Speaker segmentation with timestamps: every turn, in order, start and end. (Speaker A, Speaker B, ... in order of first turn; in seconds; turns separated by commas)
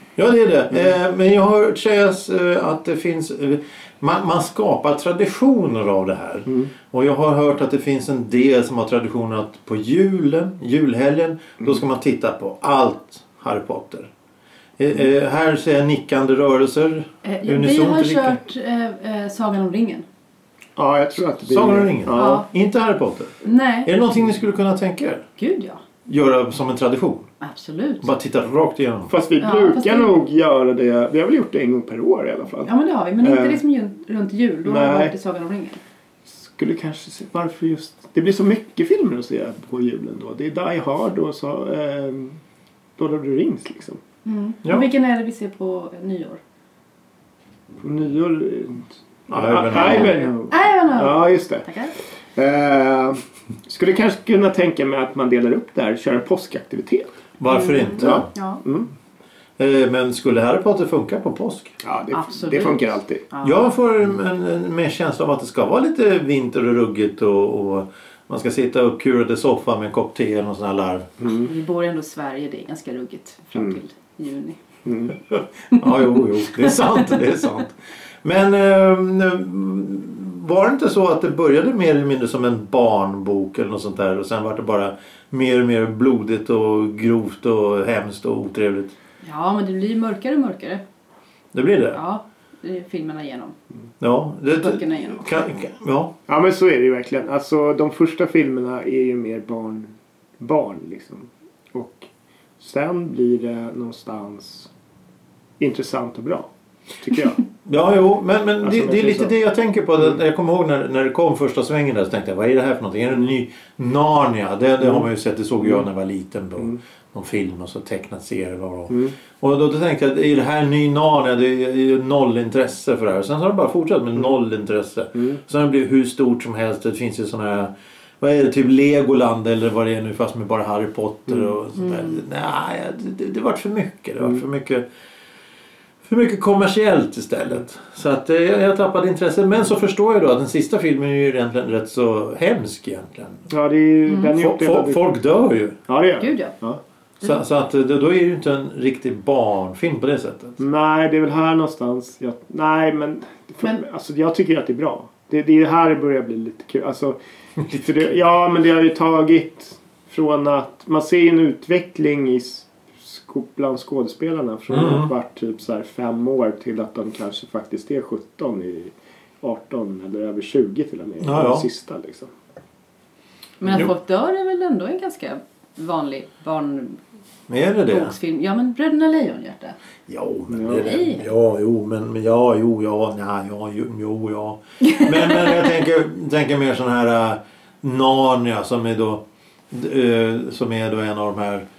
Speaker A: 0.2-14.1, Speaker A: 14.8-18.4, Speaker B: 17.2-20.0, Speaker C: 20.8-22.4, Speaker A: 21.5-23.3, Speaker B: 22.1-22.5, Speaker B: 23.4-23.9, Speaker A: 23.8-25.2, Speaker B: 25.4-25.8, Speaker A: 26.1-27.3, Speaker B: 27.4-28.1, Speaker A: 28.0-29.1, Speaker C: 29.1-33.6, Speaker B: 29.4-30.1, Speaker B: 32.6-35.8, Speaker C: 34.6-35.1, Speaker C: 36.4-42.4, Speaker C: 43.0-44.0, Speaker B: 44.2-46.4, Speaker C: 47.8-51.7, Speaker A: 49.3-50.1, Speaker B: 49.7-51.9, Speaker C: 52.4-57.1, Speaker A: 57.4-58.3, Speaker B: 57.5-58.6, Speaker C: 58.0-58.9, Speaker A: 59.6-61.8, Speaker C: 61.8-63.2, Speaker B: 62.1-63.7, Speaker A: 63.4-71.1, Speaker C: 71.2-71.5, Speaker B: 71.3-74.6, Speaker C: 74.8-75.1, Speaker A: 75.3-88.9, Speaker B: 75.7-77.1, Speaker B: 89.2-90.8, Speaker A: 91.5-92.0, Speaker B: 91.9-93.5, Speaker A: 94.0-96.1, Speaker B: 94.5-95.4, Speaker C: 96.3-102.1, Speaker C: 102.6-104.7, Speaker C: 105.6-106.5, Speaker C: 107.0-107.4, Speaker A: 107.6-134.8, Speaker C: 108.6-109.3, Speaker C: 114.8-115.1, Speaker B: 131.8-132.2, Speaker A: 136.0-143.4, Speaker C: 143.5-145.0, Speaker B: 144.1-144.3, Speaker A: 144.3-145.8, Speaker C: 145.9-146.8, Speaker B: 146.2-146.5, Speaker A: 147.2-150.6, Speaker C: 150.6-157.2, Speaker A: 157.6-158.1, Speaker C: 157.8-172.3, Speaker A: 164.7-165.1, Speaker A: 171.2-171.7, Speaker B: 173.6-177.0, Speaker A: 177.5-178.1, Speaker B: 177.9-179.7, Speaker A: 180.1-191.6, Speaker C: 180.5-180.9, Speaker B: 180.8-181.2